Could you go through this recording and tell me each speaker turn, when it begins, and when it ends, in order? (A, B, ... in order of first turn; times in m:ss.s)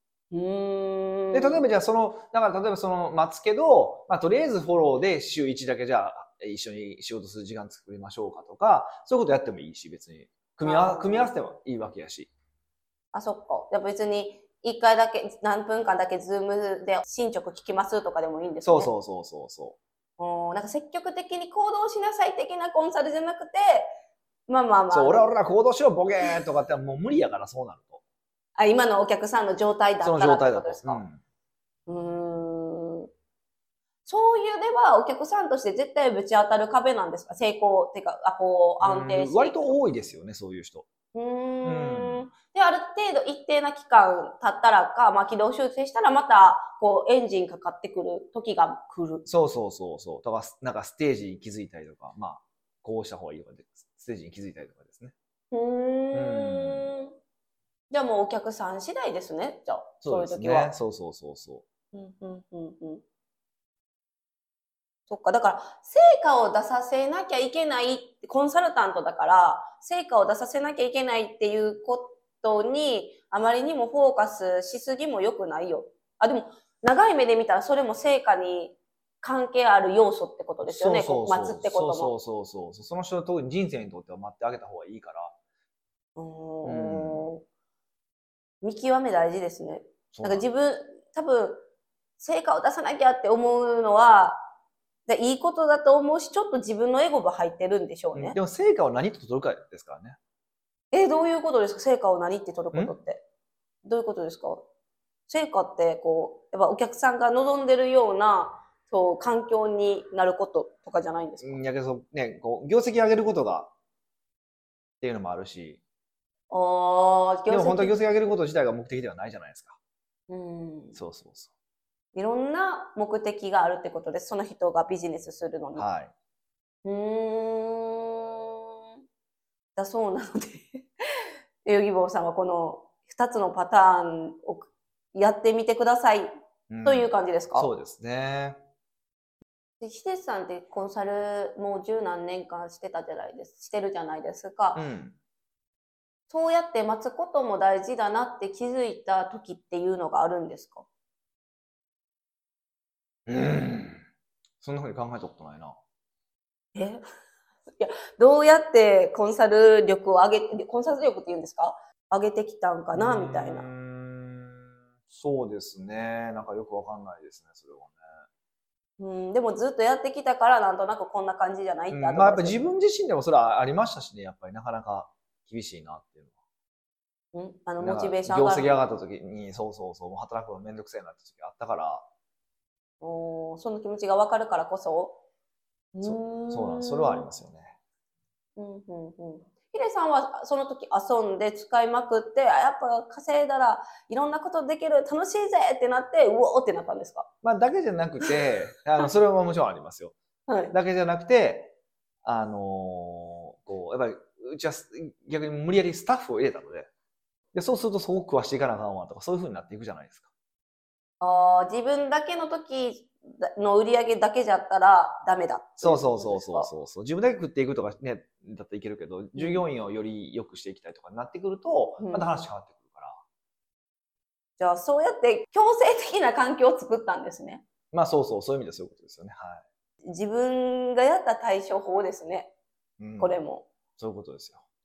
0:00.3-0:01.6 A
0:01.3-0:12.3 B
0:10.6-0:11.3 A
0:13.1-0:18.9 A
0:18.6-0:19.8 B
0:20.2-0:23.9 A
0:24.5-0:25.3 A
0:24.9-0:28.0 B
0:28.6-0:31.0 A
0:30.0-0:31.2 B
0:31.9-0:33.1 A
0:34.1-0:39.8 A
0:38.8-0:40.9 B
0:41.1-0:49.3 A
0:41.6-0:42.3 B
0:49.3-0:55.1 B
0:55.5-0:57.1 A
0:56.1-0:56.9 B
0:57.9-1:00.7 A
1:00.0-1:01.6 B
1:01.9-1:03.0 A
1:05.1-1:22.1 A
1:20.6-1:25.3 B
1:26.2-1:27.4 A
1:26.6-1:27.3 B
1:28.6-1:31.6 A
1:30.1-1:30.5 B
1:32.2-1:34.4 A
1:35.1-1:38.4 A
1:38.2-1:40.2 B
1:40.9-1:43.2 A
1:43.8-1:44.6 A
1:45.3-1:51.6 A
1:51.4-1:53.7 B
1:55.0-1:55.8 B
1:56.5-1:58.0 A
1:57.5-1:59.8 B
2:00.3-2:01.0 A
2:01.0-2:01.5 B
2:02.2-2:05.9 A
2:05.8-2:06.1 B
2:06.8-2:08.5 A
2:09.8-2:10.9 A
2:11.6-2:16.3 A
2:16.7-2:18.6 B
2:16.8-2:17.7 A
2:19.8-2:24.9 A
2:24.8-2:25.2 B
2:26.3-2:30.8 A
2:33.3-2:34.0 B
2:34.6-2:35.8 B
2:36.8-2:37.0 A
2:37.8-2:43.7 A
2:42.9-2:48.0 B
2:49.0-2:52.6 A
2:51.9-2:56.3 B
2:57.3-2:58.8 A
2:57.8-3:02.0 B
3:03.0-3:05.2 A
3:05.9-3:07.3 A
3:06.0-3:07.8 B
3:08.6-3:17.3 A
3:17.4-3:20.2 B
3:18.2-3:18.5 A
3:20.5-3:20.7 A
3:20.7-3:26.9 B
3:27.5-3:30.3 B
3:31.2-3:36.7 A
3:35.8-3:43.2 B
3:39.4-3:39.6 A
3:42.0-3:42.4 A
3:44.6-3:47.6 A
3:47.9-3:49.6 B
3:50.0-3:52.5 A
3:53.0-3:53.4 B
3:53.2-3:53.7 A
3:54.0-3:54.6 B